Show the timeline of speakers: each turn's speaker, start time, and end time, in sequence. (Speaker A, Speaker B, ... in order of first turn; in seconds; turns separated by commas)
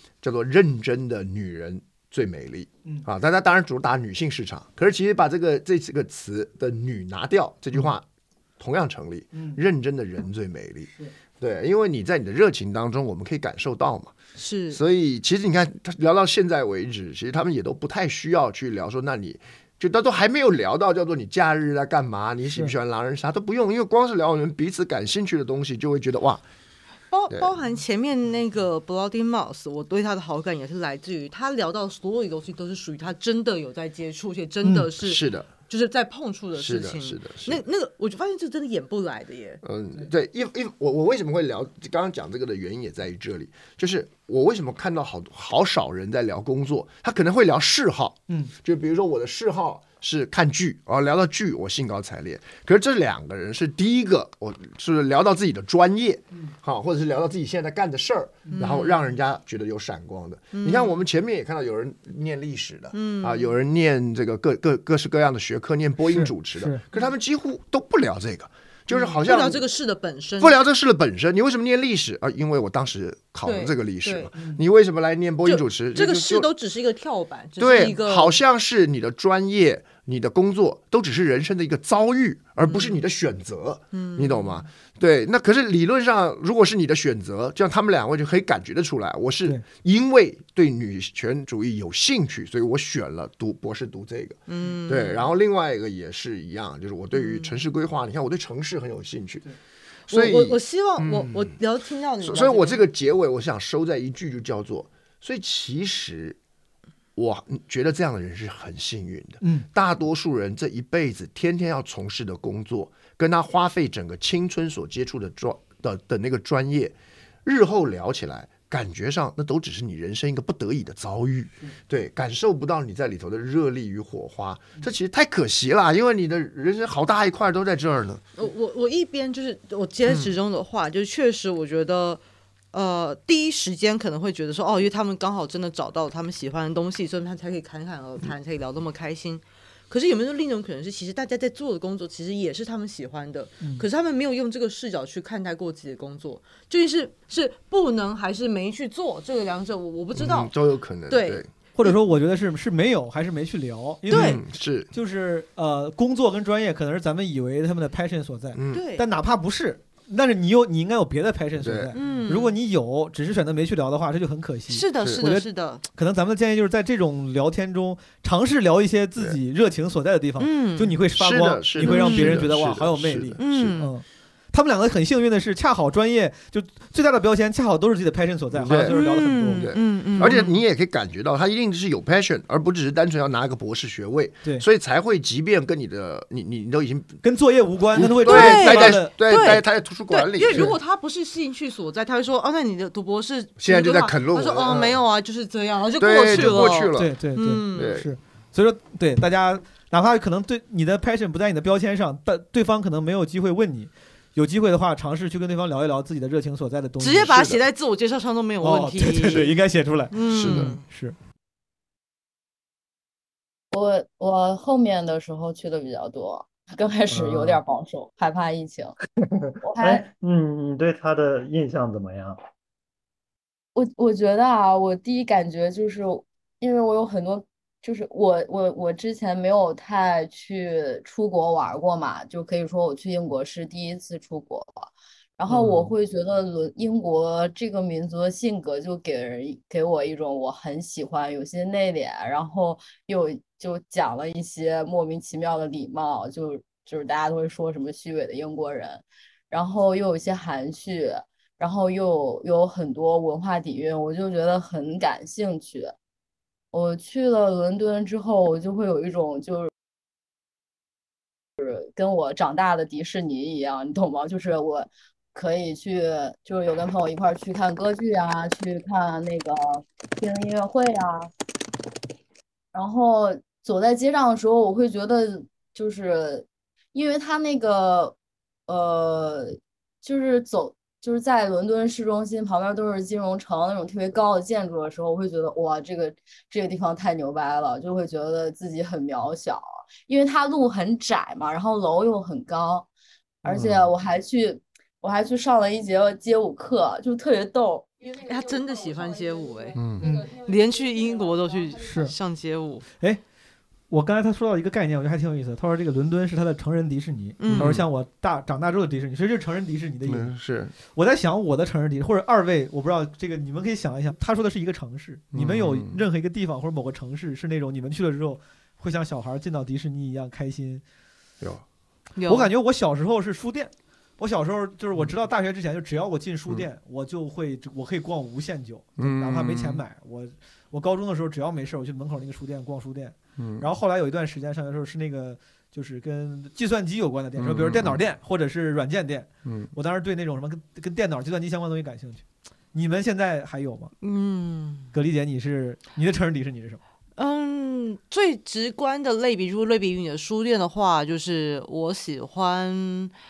Speaker A: 0.2-8.0, Speaker A: 8.6-14.2, Speaker B: 9.3-9.6, Speaker C: 14.4-14.8, Speaker A: 14.7-26.4, Speaker C: 27.1-39.6, Speaker A: 35.0-35.5, Speaker A: 36.5-37.6, Speaker A: 39.6-69.7, Speaker C: 58.5-59.1, Speaker C: 60.5-61.0, Speaker C: 62.9-63.5, Speaker B: 66.0-66.8, Speaker C: 68.9-70.6, Speaker A: 70.4-76.5, Speaker C: 73.5-74.4, Speaker B: 74.4-74.6, Speaker C: 75.5-78.4, Speaker A: 77.6-99.5, Speaker C: 82.6-83.0, Speaker C: 83.9-84.7, Speaker C: 94.5-95.3, Speaker C: 97.1-97.5, Speaker A: 100.1-101.6, Speaker C: 100.1-102.8, Speaker A: 102.2-106.4, Speaker A: 107.2-128.2, Speaker B: 109.4-109.7, Speaker C: 128.4-132.2, Speaker C: 132.7-150.5, Speaker A: 150.2-151.5, Speaker C: 151.1-151.5, Speaker B: 151.8-180.4, Speaker A: 154.1-154.9, Speaker C: 154.1-154.4, Speaker A: 158.5-158.8, Speaker C: 158.7-159.1, Speaker A: 161.6-161.9, Speaker C: 161.9-162.6, Speaker C: 164.7-165.8, Speaker A: 165.0-165.2, Speaker C: 170.4-171.0, Speaker A: 171.1-173.8, Speaker C: 171.8-172.4, Speaker C: 173.4-173.9, Speaker A: 178.5-187.2, Speaker C: 178.8-180.6, Speaker B: 187.2-189.1, Speaker A: 187.9-190.8, Speaker C: 188.2-198.0, Speaker A: 193.6-195.0, Speaker A: 196.0-197.1, Speaker B: 196.3-207.5, Speaker A: 197.7-198.1, Speaker C: 207.0-210.9, Speaker A: 207.3-207.6, Speaker B: 208.6-211.2, Speaker A: 210.3-210.8, Speaker D: 213.7-219.0, Speaker E: 217.1-217.6, Speaker E: 219.2-222.4, Speaker D: 219.6-220.1, Speaker D: 223.8-255.9, Speaker E: 235.5-235.9, Speaker D: 256.7-259.7, Speaker D: 261.6-271.3, Speaker D: 272.7-278.2, Speaker D: 278.7-292.9, Speaker A: 293.4-293.9, Speaker D: 293.4-302.0, Speaker C: 298.2-302.9, Speaker A: 299.8-300.0, Speaker B: 301.8-302.1, Speaker B: 302.9-303.2, Speaker B: 303.9-320.8, Speaker C: 307.4-307.8, Speaker A: 307.5-307.9, Speaker A: 310.1-310.7, Speaker A: 315.3-316.0, Speaker C: 322.2-322.5, Speaker B: 322.3-343.9, Speaker A: 329.0-329.8, Speaker A: 333.4-333.7, Speaker A: 337.4-338.0, Speaker C: 344.0-344.9, Speaker B: 344.9-346.8, Speaker C: 347.1-353.1